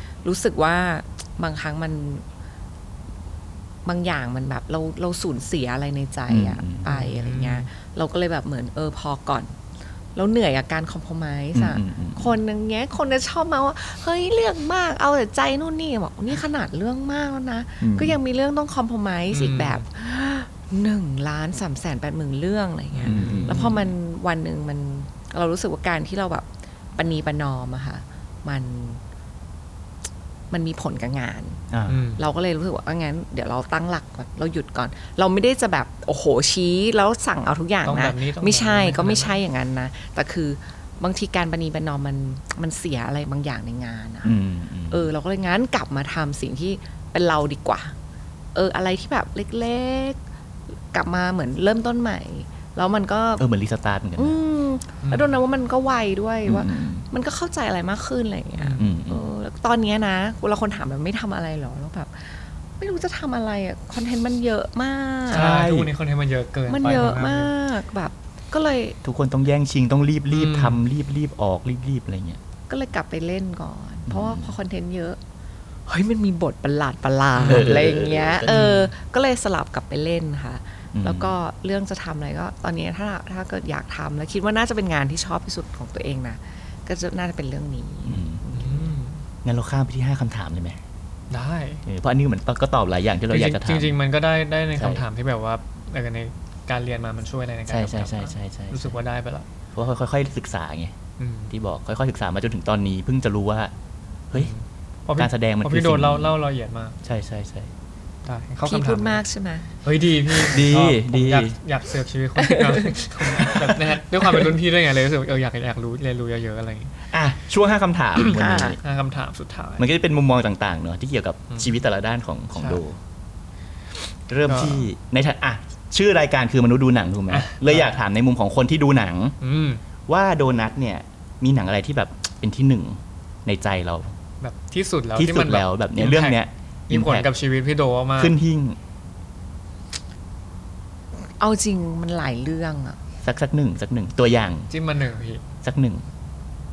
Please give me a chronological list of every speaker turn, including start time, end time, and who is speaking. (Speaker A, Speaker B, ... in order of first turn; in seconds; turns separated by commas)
Speaker A: 0.2-2.2, Speaker A: 3.9-9.6, Speaker B: 6.3-6.9, Speaker C: 6.9-7.7, Speaker A: 10.2-29.0, Speaker B: 11.5-12.4, Speaker B: 17.8-18.2, Speaker C: 19.3-19.8, Speaker C: 22.9-23.8, Speaker B: 23.1-23.8, Speaker A: 30.5-31.7, Speaker B: 31.7-32.0, Speaker C: 31.9-32.2, Speaker A: 32.2-44.4, Speaker C: 37.9-39.4, Speaker B: 44.2-45.1, Speaker A: 44.9-48.0, Speaker A: 48.5-50.2, Speaker A: 50.9-53.5, Speaker B: 53.4-54.4, Speaker A: 54.2-65.5, Speaker C: 55.0-55.4, Speaker B: 56.5-57.0, Speaker C: 58.6-58.9, Speaker B: 58.8-59.3, Speaker B: 65.3-65.9, Speaker C: 65.3-67.5, Speaker A: 66.7-69.0, Speaker B: 69.0-72.4, Speaker C: 70.3-70.8, Speaker A: 72.7-75.2, Speaker B: 74.1-74.5, Speaker A: 75.9-89.0, Speaker C: 77.3-77.7, Speaker B: 77.4-78.7, Speaker C: 78.5-78.9, Speaker B: 81.0-81.3, Speaker B: 88.1-88.4, Speaker C: 88.5-89.2, Speaker B: 89.4-90.8, Speaker C: 91.3-91.8, Speaker B: 91.9-94.0, Speaker C: 93.3-99.5, Speaker B: 94.8-95.0, Speaker B: 97.7-99.0, Speaker B: 99.7-101.0, Speaker C: 101.2-101.5, Speaker B: 101.5-103.7, Speaker C: 104.3-107.0, Speaker B: 105.2-106.3, Speaker B: 107.0-107.7, Speaker C: 108.2-109.2, Speaker A: 108.7-109.7, Speaker C: 109.8-116.9, Speaker B: 110.4-111.5, Speaker A: 112.4-113.6, Speaker B: 117.1-118.8, Speaker A: 118.2-118.8, Speaker C: 118.8-119.8, Speaker B: 119.8-123.0, Speaker C: 122.6-122.8, Speaker B: 124.3-129.4, Speaker C: 124.5-124.9, Speaker C: 127.3-128.0, Speaker C: 129.4-129.8, Speaker B: 130.1-134.1, Speaker C: 134.4-138.3, Speaker B: 135.2-137.3, Speaker B: 138.2-138.8, Speaker A: 141.2-143.0, Speaker B: 143.2-144.7, Speaker C: 144.7-145.4, Speaker B: 145.6-146.0